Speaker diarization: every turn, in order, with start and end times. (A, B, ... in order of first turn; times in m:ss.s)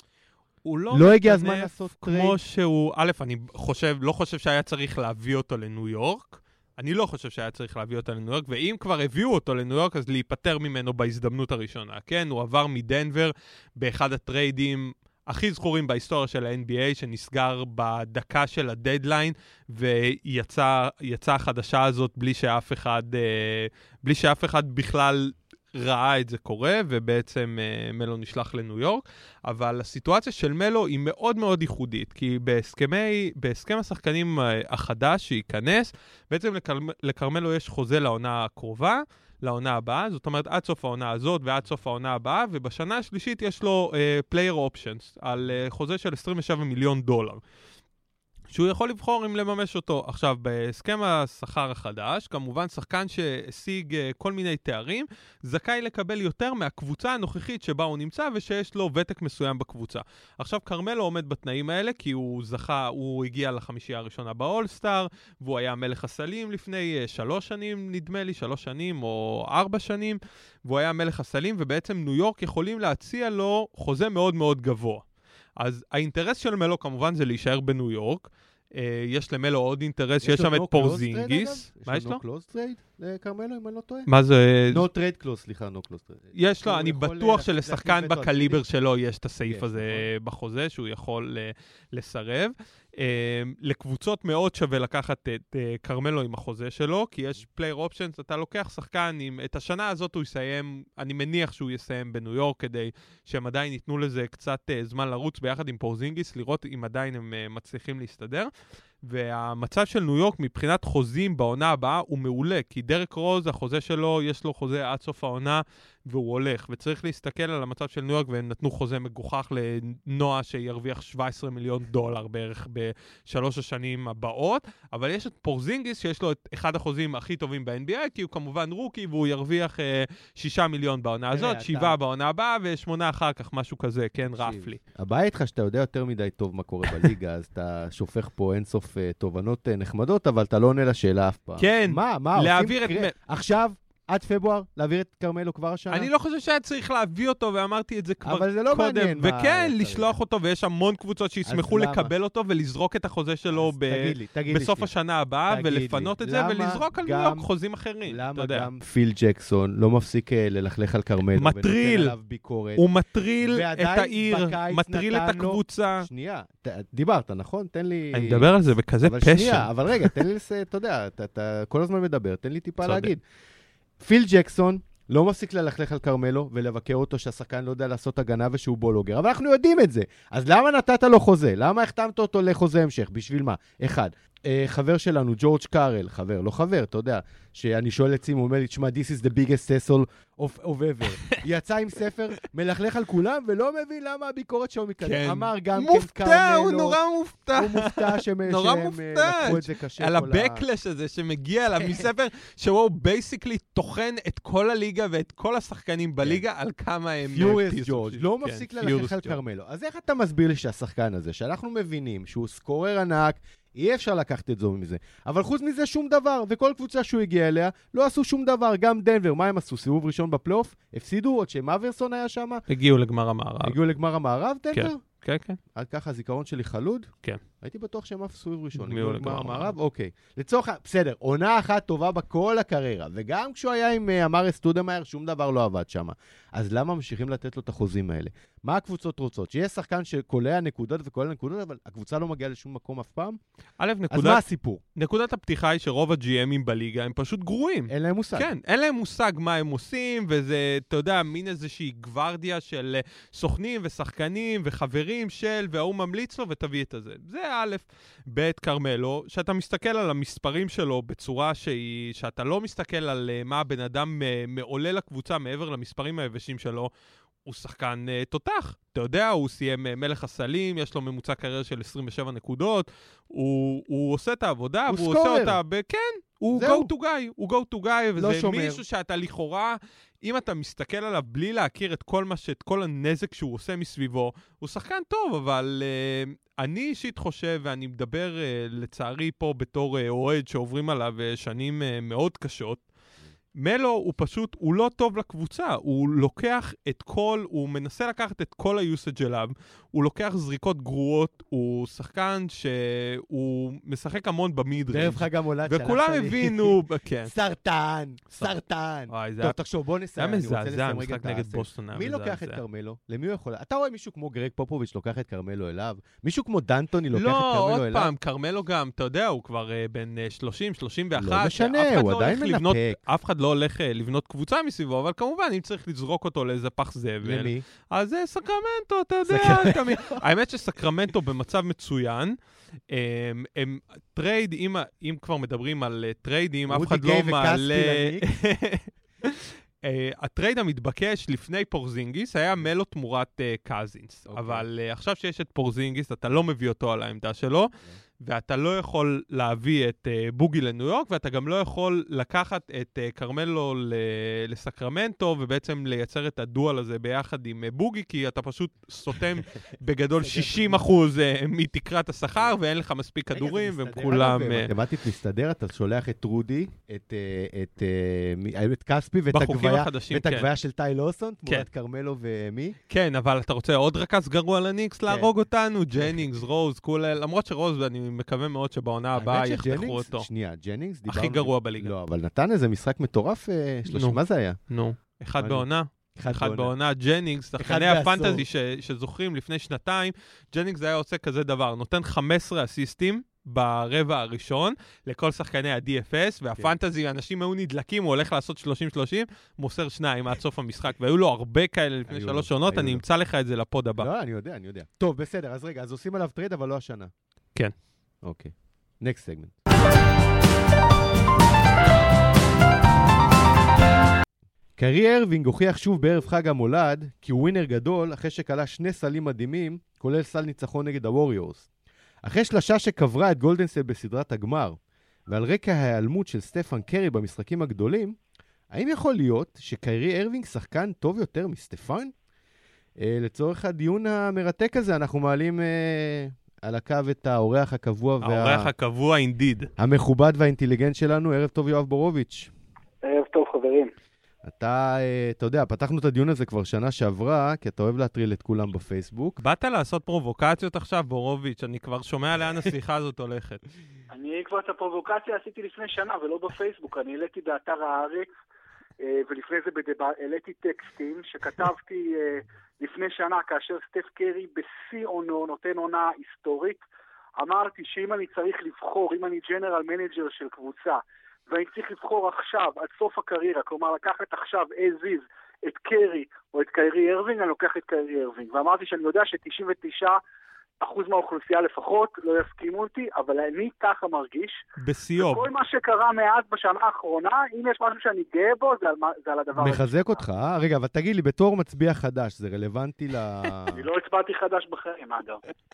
0:00.6-0:47.4 A
0:00.9-0:02.4 B
0:48.5-1:15.0 A
1:15.6-1:22.2 A
1:20.2-1:24.1 B
1:24.1-1:24.8 A
1:24.7-1:28.6 B
1:26.3-1:48.5 A
1:29.5-1:30.1 B
1:49.0-2:14.8 A
2:11.3-2:12.0 B
2:14.3-2:26.1 B
2:21.6-2:23.1 A
2:25.9-2:38.7 A
2:28.2-2:30.1 B
2:31.4-2:32.1 B
2:33.5-2:34.9 B
2:35.5-2:37.4 B
2:38.1-2:42.8 B
2:41.4-2:42.1 A
2:42.8-2:46.1 A
2:43.4-2:53.2 B
2:48.1-2:50.2 A
2:52.8-2:53.1 A
2:54.0-3:17.0 B
3:11.1-3:11.4 A
3:15.0-3:29.4 A
3:17.5-3:20.6 B
3:21.8-3:22.1 B
3:27.3-3:42.6 B
3:42.7-3:43.8 A
3:43.6-3:45.0 B
3:44.7-3:45.6 A
3:45.7-3:47.1 B
3:47.6-4:03.4 B
3:48.8-3:49.7 A
4:03.8-4:04.4 A
4:04.1-4:04.8 B
4:05.0-4:26.9 A
4:07.9-4:08.5 B
4:27.4-4:52.8 A
4:34.9-4:35.6 B
4:36.5-4:36.9 B
4:38.2-4:38.8 B
4:53.6-5:07.3 A
5:04.9-5:18.1 B
5:09.1-5:09.6 A
5:10.2-5:12.6 A
5:17.1-5:32.4 A
5:21.2-5:23.0 B
5:27.2-5:27.6 B
5:29.3-5:30.2 B
5:32.9-6:04.7 A
5:36.7-5:38.3 B
5:44.3-5:44.6 B
6:00.2-6:00.9 B
6:03.3-6:12.8 B
6:09.3-6:10.5 A
6:12.9-6:20.2 A
6:19.2-6:24.6 B
6:21.1-6:21.9 A
6:23.9-6:24.2 A
6:24.7-6:44.1 A
6:25.4-6:25.6 B
6:26.2-6:26.7 B
6:27.6-6:28.4 B
6:42.1-6:43.0 B
6:44.0-6:47.1 B
6:48.2-6:49.6 B
6:54.8-7:01.7 B
7:02.2-7:04.8 B
7:05.3-7:08.2 B
7:08.7-7:12.1 B
7:13.0-7:18.7 B
7:18.2-7:19.7 A
7:19.8-7:22.5 B
7:23.0-7:23.9 C
7:24.4-7:29.4 B
7:29.4-7:33.6 A
7:34.1-7:38.3 C
7:39.0-7:46.8 C
7:47.4-8:00.2 C
8:00.8-8:04.6 C
8:04.8-8:05.5 A
8:05.2-8:10.3 C
8:09.6-8:13.9 B
8:13.7-8:15.4 C